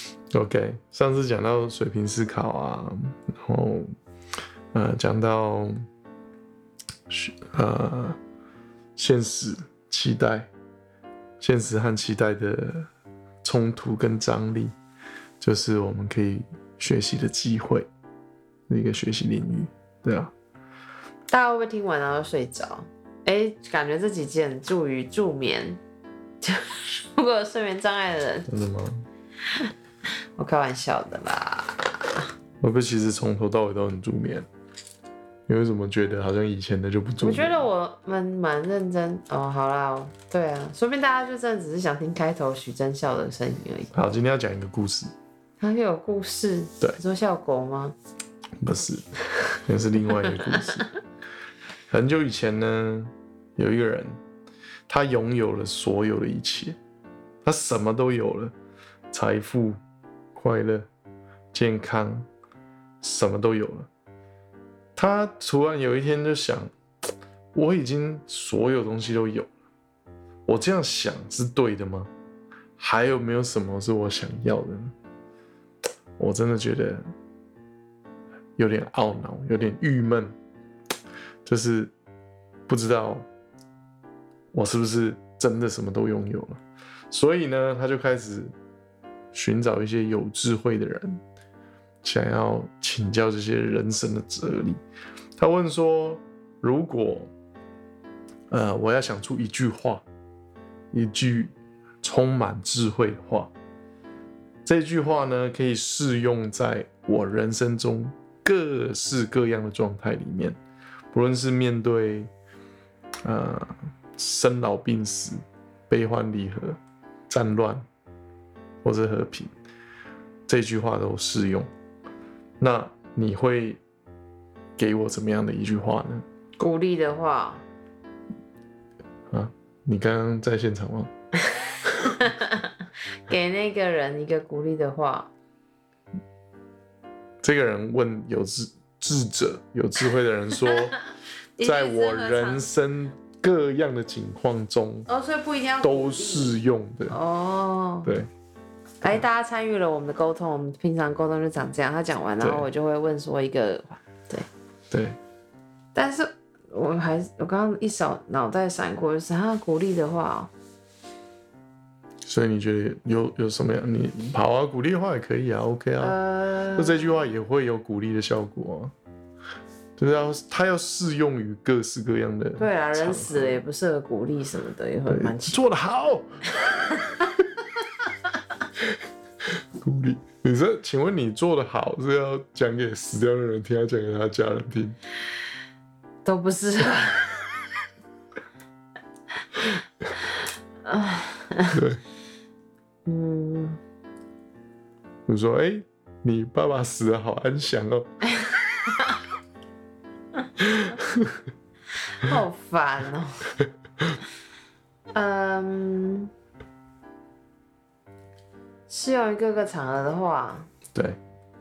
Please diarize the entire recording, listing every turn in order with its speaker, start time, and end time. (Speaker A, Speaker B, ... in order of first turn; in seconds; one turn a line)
Speaker A: 0.3-3.9
Speaker A: 4.7-5.9
Speaker A: 7.1-8.2
Speaker A: 8.9-10.5
Speaker A: 11.4-12.9
Speaker A: 13.4-14.7
Speaker A: 15.4-17.9
Speaker A: 18.7-20.3
Speaker B: 21.3-25.8
Speaker B: 26.4-28.5
Speaker A: 28.5-29.1
Speaker B: 30.4-32.3
Speaker A: 32.6-34.5
Speaker A: 35.5-37.6
Speaker B: 37.2-43.9
Speaker A: 43.9-45.1
Speaker B: 45.6-48.0
Speaker A: 48.6-49.1
Speaker A: 49.6-50.9
Speaker A: 51.9-54.2
Speaker A: 54.9-56.8
Speaker A: 57.4-58.5
Speaker A: 59.1-59.8
Speaker A: 60.4-60.9
Speaker A: 61.5-62.3
Speaker A: 63.0-63.9
Speaker A: 65.0-66.7
Speaker A: 67.5-69.5
Speaker A: 70.5-72.1
Speaker A: 72.8-74.9
Speaker A: 76.2-77.0
Speaker A: 78.6-80.3
Speaker A: 81.5-81.9
Speaker A: 82.7-83.3
Speaker A: 84.5-88.5
Speaker A: 89.3-91.2
Speaker A: 92.0-94.8
Speaker A: 95.4-97.3
Speaker A: 98.5-100.0
Speaker A: 100.9-103.5
Speaker A: 104.6-110.6
Speaker A: 111.1-112.3
Speaker A: 113.2-117.8
Speaker A: 118.8-119.5
Speaker A: 120.5-121.7
Speaker A: 122.6-123.8
Speaker A: 124.8-126.2
Speaker B: 126.6-127.6
Speaker A: 129.3-131.1
Speaker B: 132.0-132.7
Speaker B: 133.3-135.3
Speaker A: 137.4-141.0
Speaker B: 141.6-142.6
Speaker A: 141.6-145.1
Speaker B: 145.1-146.6
Speaker A: 145.8-147.2
Speaker B: 147.1-148.1
Speaker B: 149.0-154.4
Speaker A: 152.4-152.7
Speaker A: 154.9-155.2
Speaker B: 155.9-160.5
Speaker A: 162.2-166.2
Speaker B: 166.0-167.0
Speaker A: 166.8-168.9
Speaker A: 170.0-173.6
Speaker B: 172.6-175.6
Speaker A: 175.1-177.3
Speaker A: 179.7-185.0
Speaker B: 186.2-187.5
Speaker B: 190.8-191.8
Speaker A: 191.7-192.0
Speaker B: 193.1-193.8
Speaker A: 195.3-198.1
Speaker A: 200.6-201.4
Speaker B: 202.2-203.5
Speaker B: 205.1-206.3
Speaker B: 208.9-210.7
Speaker A: 210.9-211.2